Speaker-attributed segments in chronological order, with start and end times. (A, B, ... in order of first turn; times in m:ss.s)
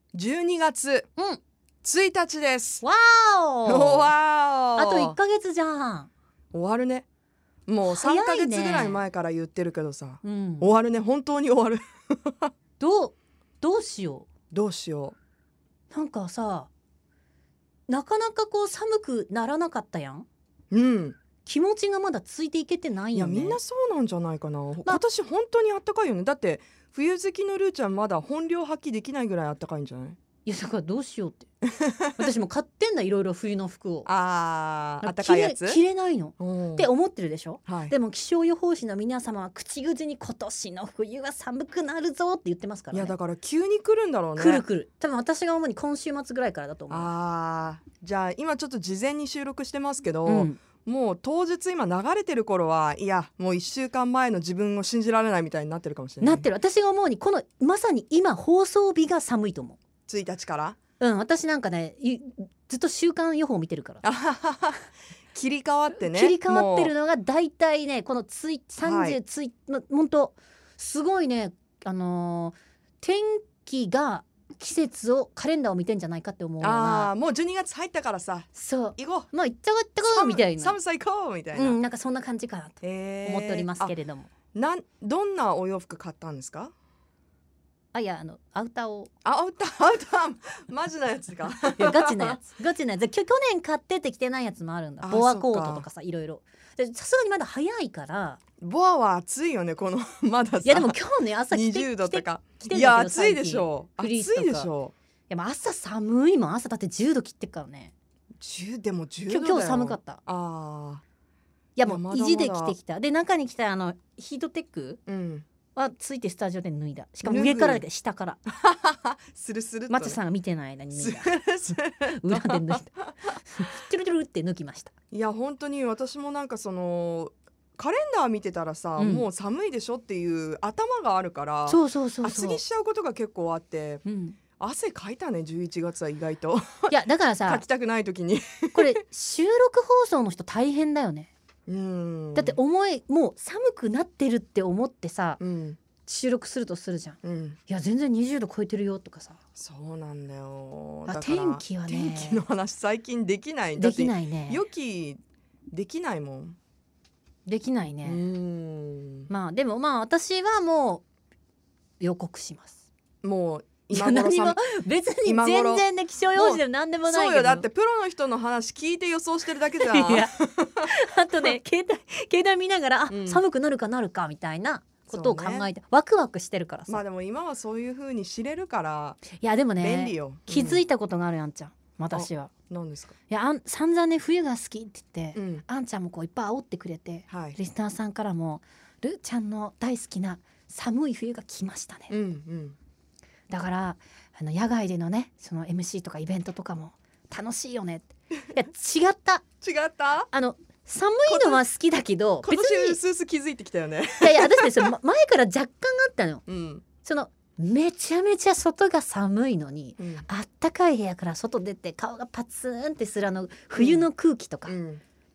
0:00.1-0:01.1 A
0:01.8-0:02.8 A
0:02.8-0:04.1 B
0:03.6-0:05.2 A
0:04.7-0:06.1 B
0:06.5-0:07.0 A
0:07.7-0:12.5 A
0:07.8-0:09.0 B
0:10.2-0:10.7 B
0:12.8-0:14.3 B
0:14.5-0:15.2 A
0:15.9-0:16.7 B
0:17.9-0:20.2 B
0:20.7-0:21.2 A
0:21.4-0:23.6 B
0:23.1-0:30.2 A
0:30.4-0:31.5 B
0:31.7-0:32.2 A
0:32.2-0:34.1 B
0:34.0-0:35.8 A
0:35.0-0:43.1 B
0:36.4-0:36.9 A
0:37.7-0:37.9 A
0:42.9-0:44.6 A
0:44.4-0:47.1 B
0:46.9-0:56.5 A
0:50.2-0:50.6 B
0:56.2-0:59.8 B
1:00.1-1:00.8 A
1:01.0-1:04.0 B
1:04.0-1:06.9 A
1:05.9-1:17.1 B
1:08.8-1:09.2 A
1:16.6-1:19.3 A
1:18.5-1:20.8 B
1:20.1-1:21.8 A
1:21.5-1:24.3 B
1:22.8-1:23.9 A
1:24.5-1:26.7 A
1:27.9-1:29.1 B
1:29.2-1:32.4 A
1:31.7-1:38.4 B
1:35.0-1:35.9 A
1:38.6-1:41.0 A
1:40.6-1:44.7 B
1:41.5-1:44.9 A
1:45.3-1:47.9 B
1:48.4-1:51.0 A
1:49.3-1:50.2 B
1:51.8-1:55.0 B
1:51.8-1:52.8 A
1:55.1-1:55.4 A
1:55.7-1:58.4 B
1:57.2-1:57.8 A
1:58.5-2:00.2 A
1:59.9-2:01.5 B
2:00.9-2:03.4 A
2:02.1-2:04.9 B
2:05.1-2:14.0 A
2:09.0-2:09.3 B
2:11.7-2:12.6 B
2:14.0-2:14.4 B
2:14.6-2:16.9 A
2:16.9-2:17.6 B
2:17.4-2:19.0 A
2:18.7-2:21.3 B
2:21.7-2:22.6 A
2:22.3-2:25.4 B
2:25.4-2:25.8 A
2:26.0-2:29.4 B
2:27.2-2:27.6 A
2:29.6-2:35.2 A
2:31.1-2:32.4 B
2:33.8-2:34.6 B
2:35.7-2:36.6 A
2:37.4-2:38.3 B
2:38.0-2:39.3 A
2:39.3-2:41.0 B
2:42.0-2:42.8 B
2:43.2-2:44.6 A
2:43.9-2:47.6 B
2:45.2-2:50.9 A
2:49.8-2:57.0 B
2:53.1-2:53.4 A
2:55.1-2:55.7 A
2:56.9-2:59.2 A
2:59.3-3:02.5 B
2:59.8-3:00.8 A
3:02.1-3:03.2 A
3:03.3-3:12.1 B
3:05.3-3:05.6 A
3:07.3-3:07.6 A
3:12.1-3:12.8 A
3:13.5-3:19.4 B
3:19.6-3:20.3 A
3:20.3-3:23.0 B
3:21.3-3:21.6 A
3:22.4-3:24.9 A
3:24.2-3:26.4 B
3:26.5-3:26.8 A
3:27.0-3:34.8 B
3:30.0-3:30.2 A
3:33.8-3:34.1 A
3:34.6-3:35.0 A